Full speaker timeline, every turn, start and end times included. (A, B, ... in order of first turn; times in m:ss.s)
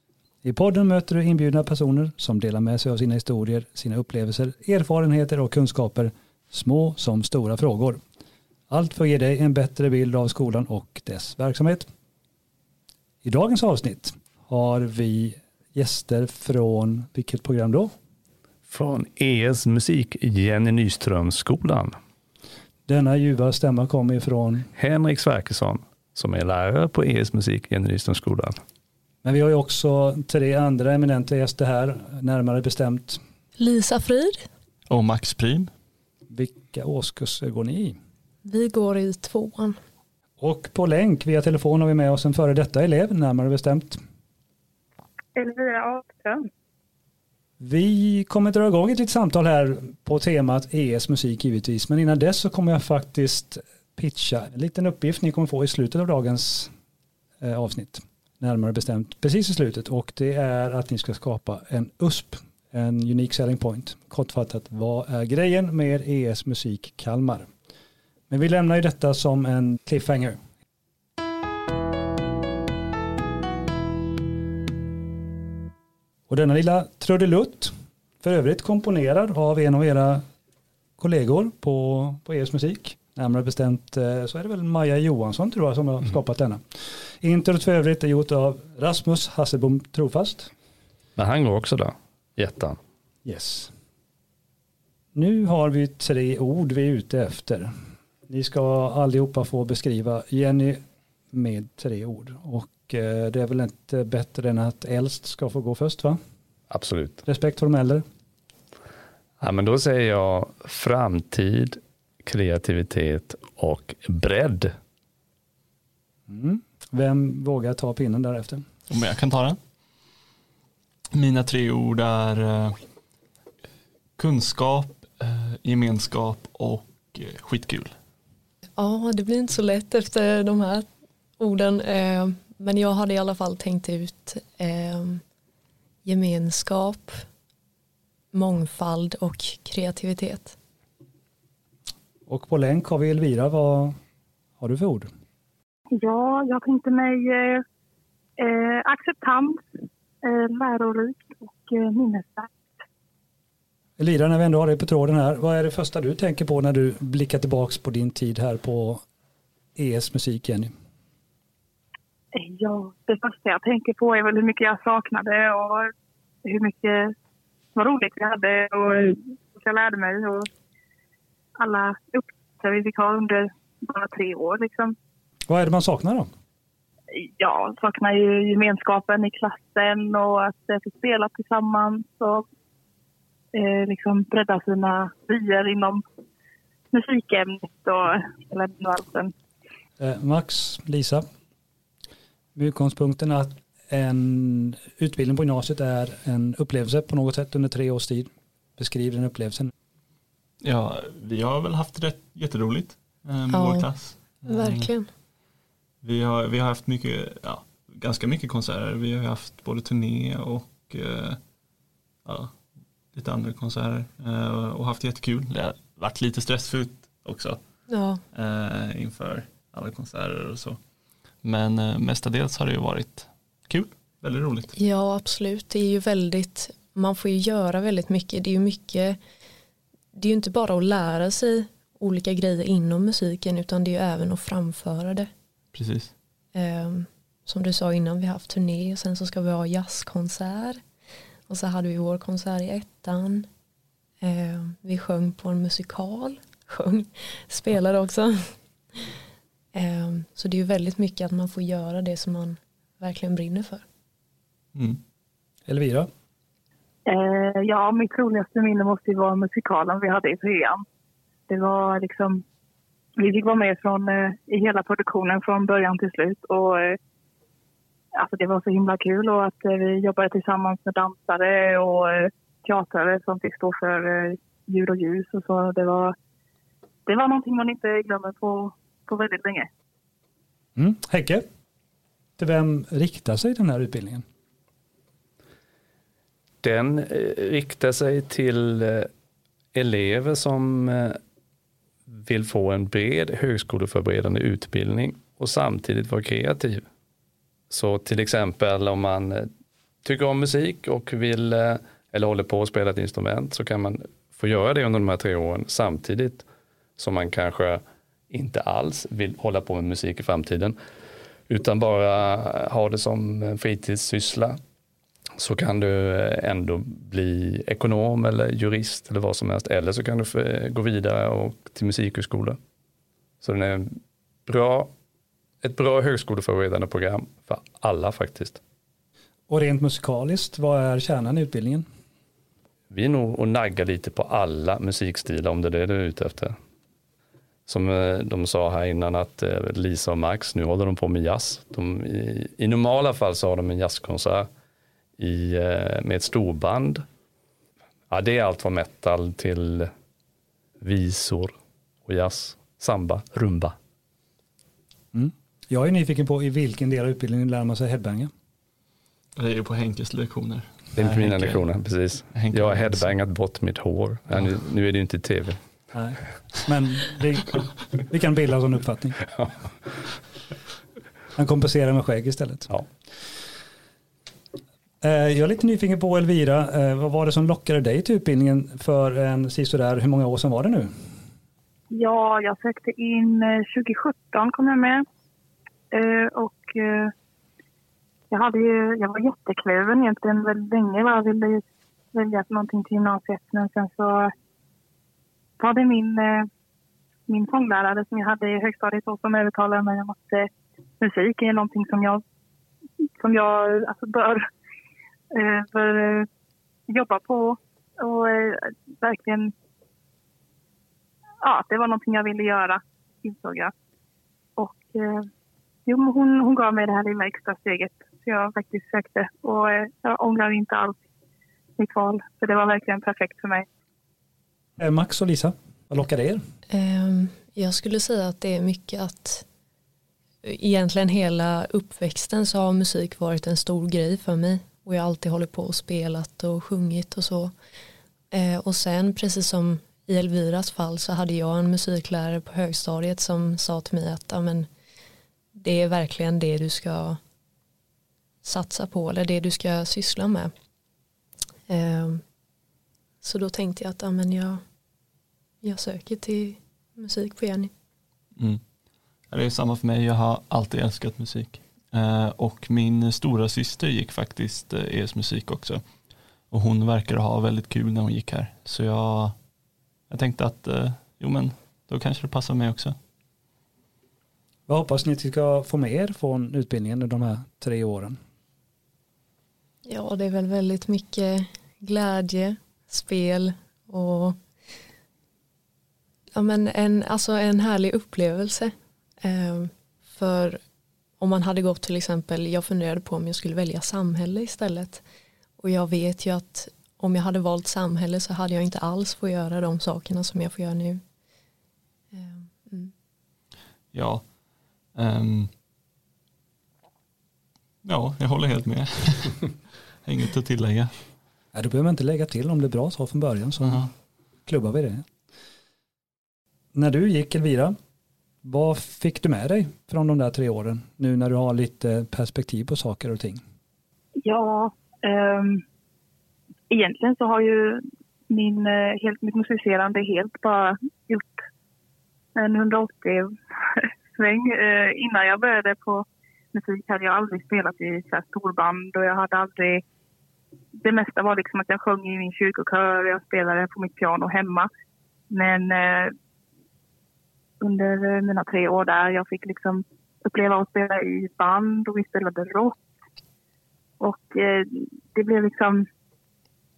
0:00.4-0:08.0 A
0:08.7-0:11.9 A
0:13.2-0:17.9 A
0:18.7-0:22.0 B
0:22.9-0:24.7 A
0:24.8-0:28.6 B
0:29.2-0:33.2 A
0:33.6-0:34.5 C
0:34.9-0:35.7 D
0:36.3-0:38.0 A
0:38.4-0:39.8 C
0:40.4-0:44.0 A
0:45.4-0:46.3 E
0:47.6-0:56.7 A
0:57.4-1:07.5 A
1:08.3-1:10.4 A
1:16.3-1:20.2 A
1:21.0-1:30.5 A
1:31.2-1:32.8 B
1:33.2-1:33.7 A
1:35.2-1:37.7 A
1:38.3-1:40.8 A
1:41.3-1:46.2 A
1:46.7-1:47.2 B
1:47.2-1:48.0 A
1:49.4-1:54.7 B
1:56.3-1:58.6 A
1:58.9-1:59.6 D
2:01.1-2:02.8 D
2:04.2-2:08.0 D
2:08.8-2:10.9 C
2:11.4-2:15.2 C
2:16.0-2:17.3 C
2:18.3-2:20.6 C
2:22.3-2:24.0 A
2:24.6-2:25.1 A
2:25.9-2:27.6 E
2:28.4-2:29.6 E
2:30.2-2:32.5 E
2:34.0-2:39.0 A
2:39.8-2:40.7 A
2:42.3-2:45.9 E
2:46.4-2:47.1 E
2:47.8-2:50.5 E
2:51.6-2:55.0 E
2:55.5-2:56.3 A
2:57.1-3:02.4 E
3:03.5-3:06.0 E
3:06.9-3:09.3 E
3:10.0-3:11.3 A
3:12.6-3:19.7 A
3:20.6-3:24.9 D
3:23.5-3:23.9 C
3:24.5-3:25.1 C
3:26.0-3:31.4 D
3:32.2-3:32.5 D
3:33.1-3:37.6 D
3:37.9-3:38.2 C
3:38.3-3:40.8 D
3:41.4-3:44.8 D
3:44.8-3:49.2 C
3:50.1-3:55.3 C
3:55.7-3:56.1 D
3:56.6-4:00.8 C
4:01.5-4:03.5 C
4:04.2-4:09.1 C
4:09.7-4:13.8 C
4:14.8-4:15.0 D
4:15.7-4:16.1 A
4:17.1-4:20.8 E
4:21.5-4:22.4 E
4:23.2-4:27.0 E
4:28.2-4:36.2 E
4:37.1-4:39.7 E
4:40.8-4:41.4 A
4:42.4-4:44.2 A
4:46.6-4:49.1 B
4:49.7-4:51.2 B
4:52.1-4:56.8 B
4:57.7-4:59.5 B
5:00.0-5:06.5 B
5:07.0-5:10.8 B
5:11.5-5:14.6 B
5:15.4-5:22.6 B
5:23.4-5:24.9 B
5:25.6-5:28.6 B
5:29.5-5:31.9 A
5:32.9-5:36.6 B
5:37.7-5:44.5 B
5:45.2-5:47.0 B
5:48.1-5:49.9 B
5:50.8-5:51.6 B
5:52.1-5:53.8 B
5:55.1-5:58.3 A
5:59.4-6:01.6 D
6:01.0-6:05.6 B
6:02.3-6:03.1 D
6:05.9-6:09.2 A
6:11.4-6:12.7 A
6:15.0-6:20.9 A
6:21.9-6:25.0 E
6:25.9-6:27.1 E
6:28.3-6:34.3 E
6:35.6-6:36.5 E
6:37.3-6:42.2 E
6:43.2-6:44.5 E
6:45.3-6:46.3 E
6:46.9-6:49.5 E
6:51.4-6:53.7 E
6:54.6-6:55.3 E
6:55.9-7:01.0 E
7:01.8-7:03.6 E
7:04.8-7:06.4 A
7:06.7-7:09.4 C
7:10.4-7:17.5 C
7:18.3-7:24.7 C
7:25.6-7:27.2 C
7:28.4-7:30.5 C
7:31.7-7:32.2 C
7:33.2-7:34.6 C
7:35.6-7:37.7 C
7:38.4-7:38.6 D
7:39.3-7:45.8 D
7:46.5-7:49.4 D
7:50.1-7:53.0 D
7:54.7-7:58.2 A
7:59.9-8:04.4 C
8:06.4-8:10.6 C
8:11.2-8:15.0 C
8:15.6-8:21.0 C
8:22.1-8:22.9 C
8:23.9-8:24.2 D
8:25.0-8:25.5 D
8:27.8-8:30.9 D
8:31.5-8:33.9 A
8:33.6-8:33.9 D
8:34.5-8:35.1 A
8:36.7-8:37.8 A
8:38.4-8:43.4 A
8:44.2-8:45.6 E
8:46.7-8:51.4 E
8:52.4-8:59.8 E
9:00.8-9:04.7 E
9:05.3-9:06.2 E
9:07.6-9:12.8 E
9:14.0-9:15.9 E